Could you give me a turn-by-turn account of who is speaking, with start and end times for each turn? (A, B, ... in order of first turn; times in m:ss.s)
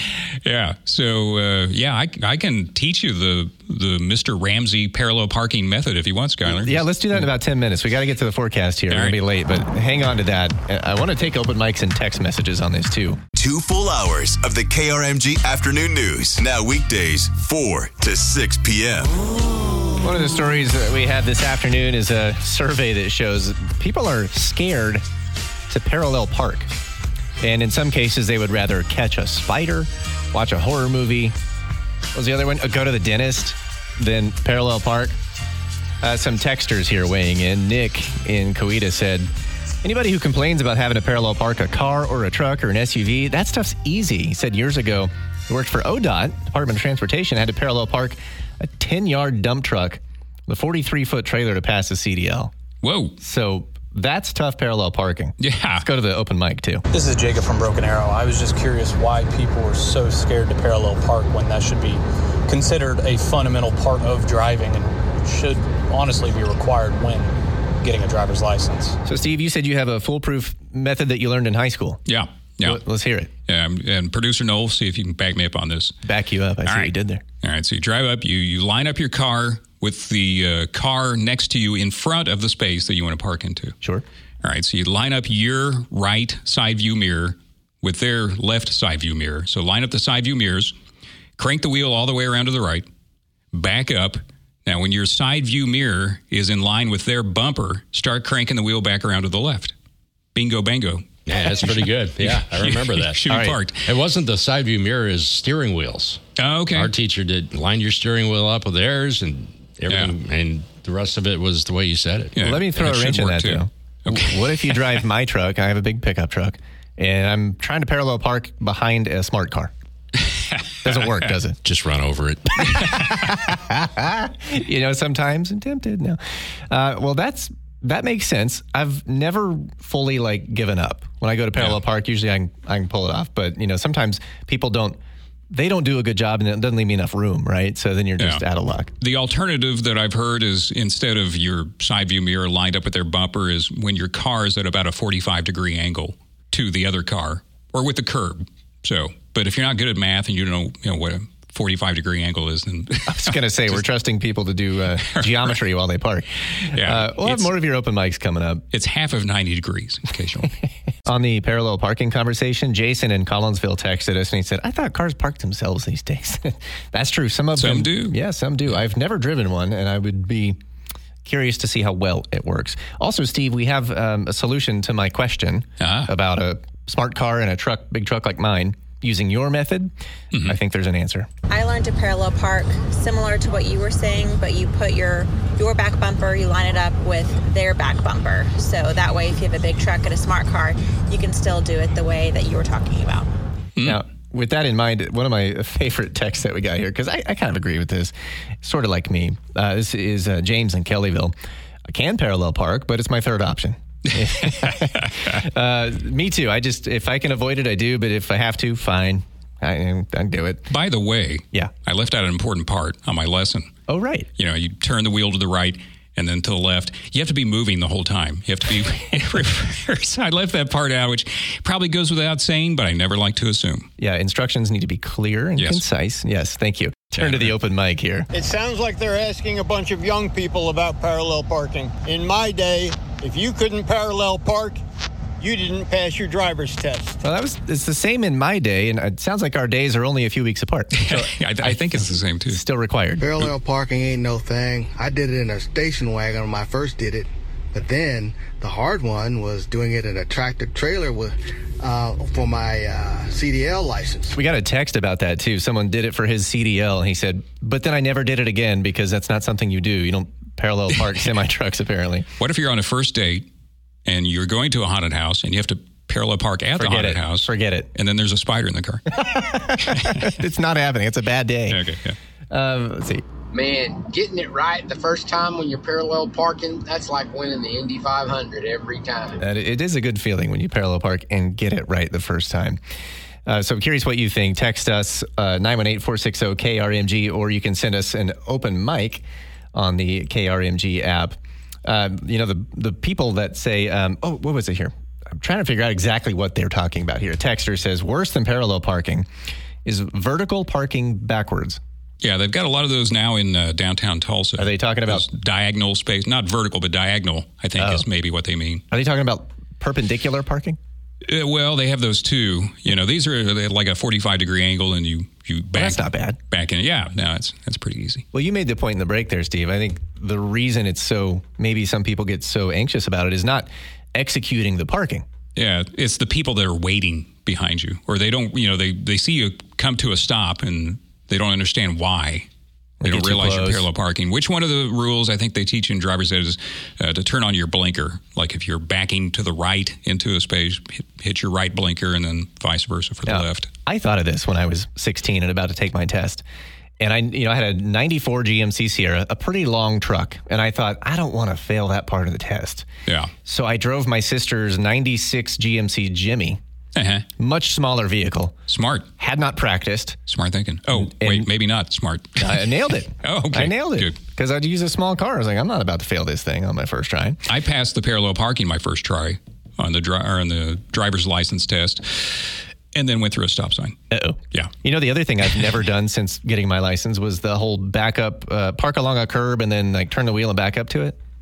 0:00.4-0:06.9 A
0:06.4-0:13.2 B
0:08.9-0:09.2 A
0:13.4-0:19.1 C
0:20.0-0:25.0 B
0:25.7-0:26.7 B
0:27.4-0:31.3 B
0:32.2-0:35.2 B
0:36.0-0:39.3 B
0:39.8-0:52.5 B
0:52.8-0:53.2 A
0:53.2-0:56.8 B
0:55.4-0:55.9 A
0:56.9-1:09.0 D
1:09.0-1:12.0 B
1:12.1-1:12.8 A
1:12.6-1:13.3 B
1:13.5-1:16.0 A
1:16.0-1:17.2 B
1:16.6-1:23.8 A
1:24.4-1:30.8 A
1:31.4-1:32.9 A
1:33.5-1:39.7 A
1:40.4-1:43.9 A
1:41.3-1:43.2 E
1:43.3-1:43.6 B
1:43.8-1:46.2 E
1:46.4-1:46.9 A
1:46.7-1:52.4 E
1:49.9-1:50.1 A
1:52.4-1:54.8 A
1:52.4-1:59.7 B
2:00.8-2:01.6 B
2:01.6-2:02.9 E
2:02.7-2:15.0 B
2:15.5-2:18.9 B
2:18.2-2:18.4 A
2:19.0-2:33.8 A
2:33.1-2:38.6 B
2:35.0-2:35.5 A
2:36.7-2:37.5 A
2:38.7-2:40.6 A
2:41.1-2:50.6 B
2:47.6-2:48.2 A
2:51.2-2:59.9 B
2:55.8-2:56.1 A
3:00.4-3:01.3 B
3:01.5-3:13.3 F
3:13.8-3:21.3 B
3:21.9-3:30.7 B
3:30.7-3:33.7 A
3:33.9-3:34.3 B
3:34.4-3:43.9 A
3:44.0-3:48.3 B
3:45.6-3:45.8 A
3:47.2-3:47.6 A
3:48.3-3:54.8 G
3:55.4-3:57.2 G
3:57.2-4:01.8 B
4:01.0-4:02.6 A
4:02.5-4:03.3 B
4:03.2-4:14.4 H
4:14.3-4:22.3 B
4:22.4-4:23.5 A
4:24.1-4:29.0 A
4:26.8-4:27.9 B
4:29.2-4:31.8 B
4:31.7-4:32.2 A
4:32.5-4:33.2 B
4:33.6-4:39.2 I
4:39.4-4:42.8 B
4:43.5-4:59.3 B
4:59.8-5:01.8 B
5:02.2-5:08.8 A
5:04.6-5:05.3 B
5:07.8-5:08.1 B
5:08.9-5:10.8 B
5:11.2-5:18.2 A
5:15.8-5:16.4 B
5:18.3-5:25.2 B
5:25.6-5:32.5 A
5:33.0-5:33.9 B
5:33.0-5:43.7 A
5:43.3-5:46.4 B
5:47.0-5:52.9 B
5:53.5-5:56.6 B
5:57.0-5:57.3 A
5:57.4-5:58.6 B
5:58.7-5:59.1 A
5:59.2-6:00.2 B
6:00.3-6:04.2 A
6:00.9-6:01.5 B
6:02.4-6:07.4 B
6:07.5-6:14.0 A
6:14.1-6:21.2 B